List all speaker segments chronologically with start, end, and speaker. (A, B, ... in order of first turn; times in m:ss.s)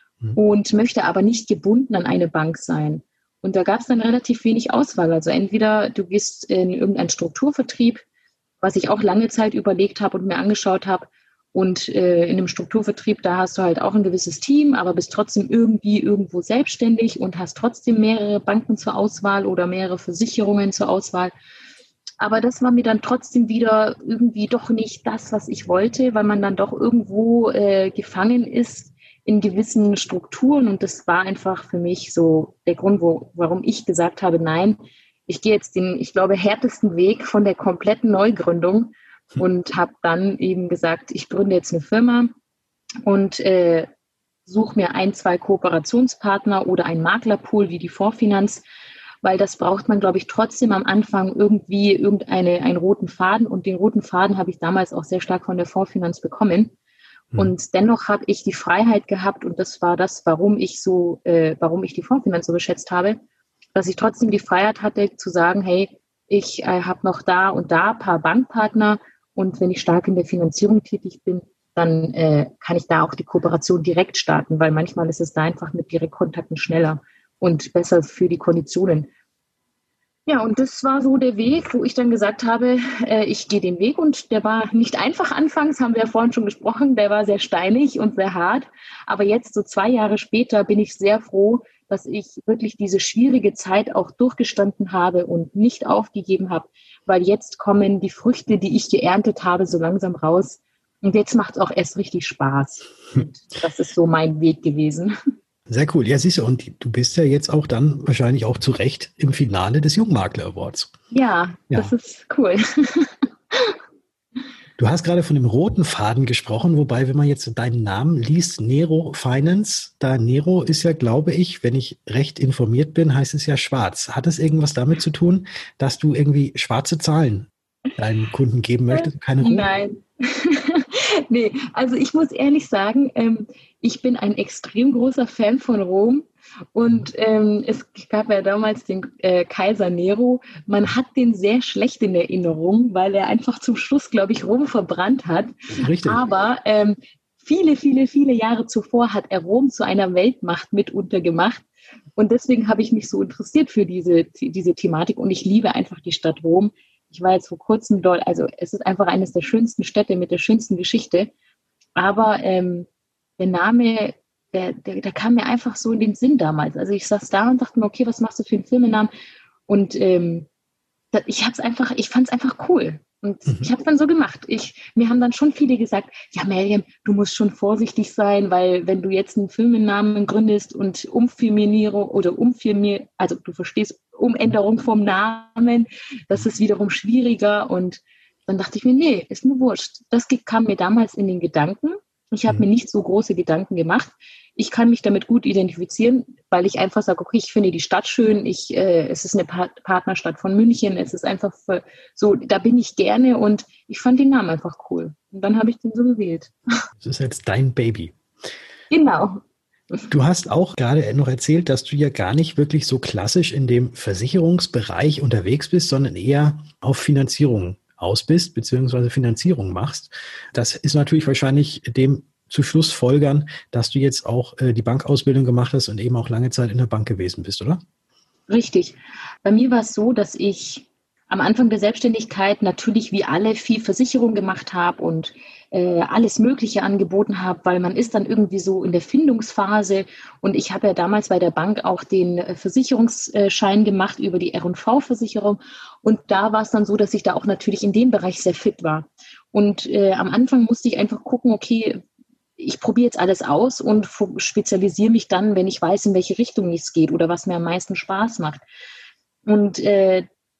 0:00.4-0:08.0 A
0:08.6-0:21.3 A
0:22.2-0:42.3 A
0:43.0-0:43.9 A
0:44.5-0:48.6 A
0:49.2-0:56.7 A
0:57.4-1:03.2 A
1:03.8-1:19.1 A
1:20.3-1:45.2 A
1:45.7-1:50.9 B
1:51.1-1:53.8 A
1:54.8-2:09.7 B
2:08.9-2:31.6 A
2:25.8-2:26.2 B
2:32.2-2:41.3 A
2:42.0-2:42.9 A
2:43.4-2:49.1 A
2:49.7-2:50.5 A
2:51.1-3:26.5 A
3:27.0-3:28.2 B
3:28.9-3:30.1 A
3:30.1-3:47.8 B
3:48.5-4:12.0 A
4:12.6-4:18.6 A
4:19.5-4:20.3 A